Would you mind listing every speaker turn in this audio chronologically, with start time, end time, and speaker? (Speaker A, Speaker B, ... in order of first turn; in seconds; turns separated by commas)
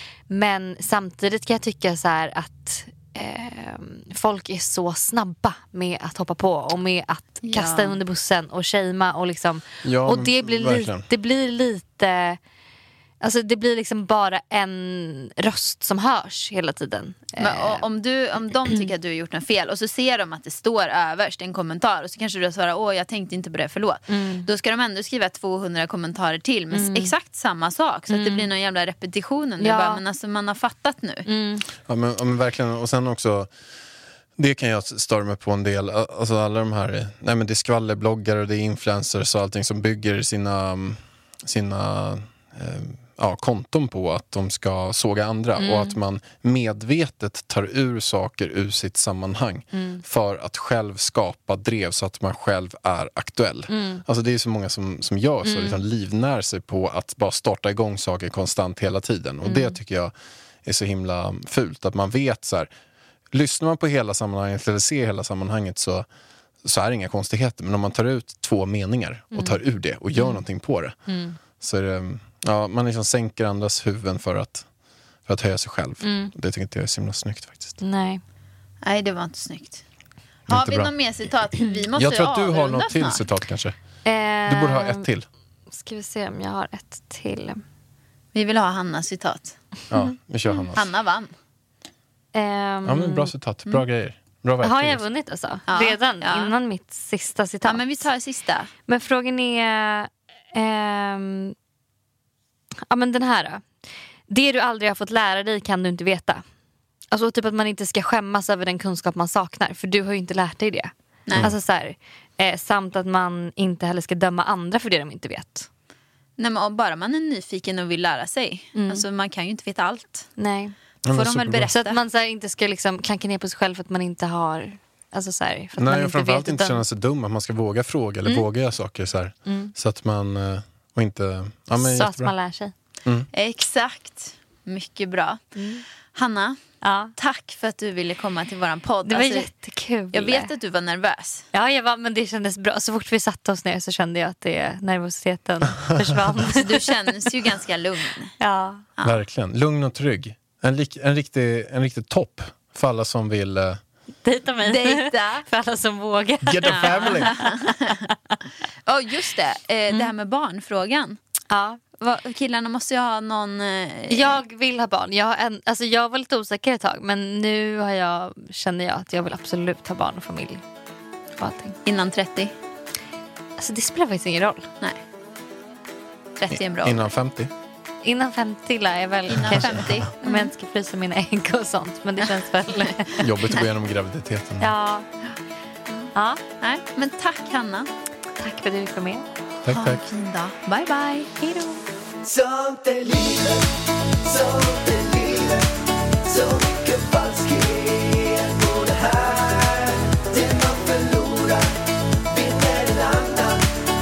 Speaker A: 0.3-12.4, Speaker B: 7.4-8.0, Speaker C: 9.8-11.1, Speaker A: 13.2-17.8, Speaker B: 17.4-31.2, Speaker A: 24.1-24.4, Speaker A: 26.7-27.1, Speaker A: 28.1-28.5, Speaker A: 29.6-30.0, Speaker A: 31.2-31.6, Speaker C: 31.9-33.5, Speaker C: 34.4-60.1, Speaker A: 45.6-46.0, Speaker A: 49.7-50.0, Speaker A: 53.7-54.0, Speaker A: 55.4-55.8, Speaker A: 59.4-59.8, Speaker C: 60.6-62.7, Speaker C: 63.3-66.1, Speaker C: 66.6-71.0, Speaker A: 71.1-71.4, Speaker C: 71.6-74.7, Speaker C: 75.3-77.8, Speaker A: 76.0-76.3, Speaker A: 77.8-78.2, Speaker B: 78.8-79.8, Speaker C: 80.5-80.9, Speaker B: 80.5-83.2, Speaker C: 81.9-83.8, Speaker A: 84.0-85.1, Speaker C: 84.5-85.2, Speaker A: 85.7-87.6, Speaker B: 88.3-89.6, Speaker C: 89.9-90.8, Speaker B: 90.5-91.3, Speaker A: 92.3-93.3, Speaker C: 92.8-95.0, Speaker A: 94.6-98.0, Speaker B: 95.7-96.5, Speaker B: 97.6-98.7, Speaker A: 98.9-101.5, Speaker A: 102.9-103.6, Speaker A: 104.3-106.4, Speaker A: 107.1-115.7, Speaker B: 116.4-120.3, Speaker A: 118.7-119.0, Speaker A: 120.4-120.7, Speaker C: 121.0-121.7, Speaker B: 121.1-122.0, Speaker A: 121.7-126.8, Speaker C: 125.8-132.3, Speaker A: 129.4-129.7, Speaker A: 131.8-132.7, Speaker B: 133.3-135.4, Speaker A: 135.6-135.8, Speaker B: 136.1-136.6, Speaker A: 136.8-137.1, Speaker B: 137.2-139.5, Speaker A: 139.0-140.5, Speaker B: 140.1-141.4, Speaker A: 141.5-146.9, Speaker B: 146.5-148.3, Speaker A: 148.4-148.8, Speaker C: 149.0-153.8, Speaker A: 154.2-158.1, Speaker B: 154.6-155.4, Speaker C: 156.4-157.3, Speaker B: 156.7-158.1, Speaker B: 158.9-161.2, Speaker A: 161.5-161.8, Speaker B: 162.0-164.4, Speaker A: 164.1-170.6, Speaker A: 171.4-171.8, Speaker B: 171.8-172.5, Speaker A: 173.6-174.7, Speaker B: 176.4-177.0, Speaker C: 176.5-177.5, Speaker A: 178.0-183.3, Speaker B: 179.3-180.5, Speaker C: 183.2-184.7, Speaker A: 184.6-185.1, Speaker B: 185.9-187.9, Speaker A: 186.1-186.4, Speaker A: 188.4-189.2, Speaker C: 189.6-190.0, Speaker B: 189.7-191.3, Speaker A: 191.4-191.8, Speaker D: 192.2-203.7